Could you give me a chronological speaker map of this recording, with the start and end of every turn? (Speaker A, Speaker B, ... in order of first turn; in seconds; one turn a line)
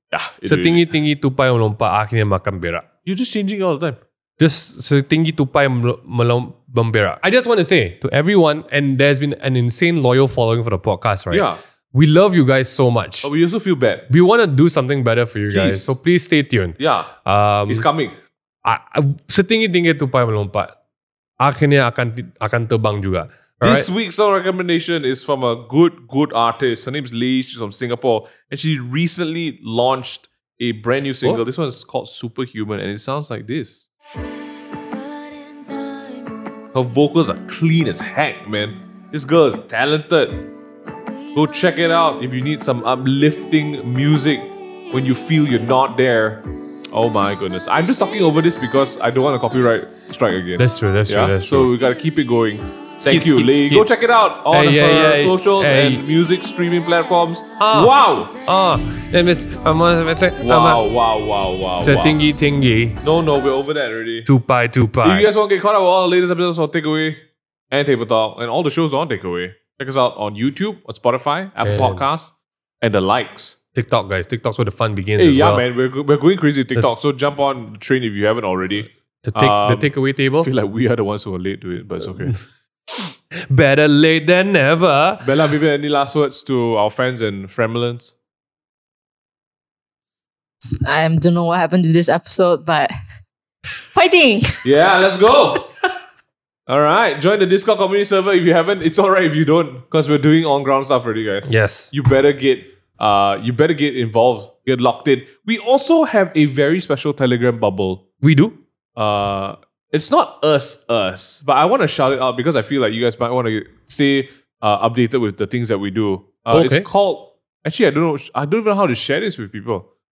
Speaker A: 0.1-0.9
Speaker B: 0.4-2.9
Speaker A: 3.0-4.0
Speaker B: 4.4-13.3
Speaker A: 11.3-11.6
Speaker A: 13.2-14.1
Speaker B: 14.1-17.9
Speaker A: 15.5-15.9
Speaker A: 16.8-17.1
Speaker A: 17.7-18.1
Speaker B: 18.6-20.7
Speaker B: 21.4-23.9
Speaker A: 23.6-33.9
Speaker A: 36.7-40.5
Speaker A: 41.3-58.3
Speaker B: 50.6-51.7
Speaker B: 53.0-53.9
Speaker B: 54.5-56.0
Speaker B: 57.6-60.8
Speaker A: 60.4-62.2
Speaker B: 61.8-63.0
Speaker A: 63.0-64.3
Speaker B: 64.2-65.3
Speaker A: 65.0-73.6
Speaker B: 71.6-72.0
Speaker B: 73.7-75.7
Speaker A: 75.2-82.3
Speaker B: 79.2-80.5
Speaker B: 83.0-85.3
Speaker A: 85.2-88.1
Speaker C: 90.6-92.9
Speaker C: 93.9-94.7
Speaker A: 94.6-95.7
Speaker A: 96.7-108.0
Speaker B: 101.5-101.9
Speaker B: 108.2-108.6
Speaker A: 109.0-119.8
Speaker B: 116.5-116.9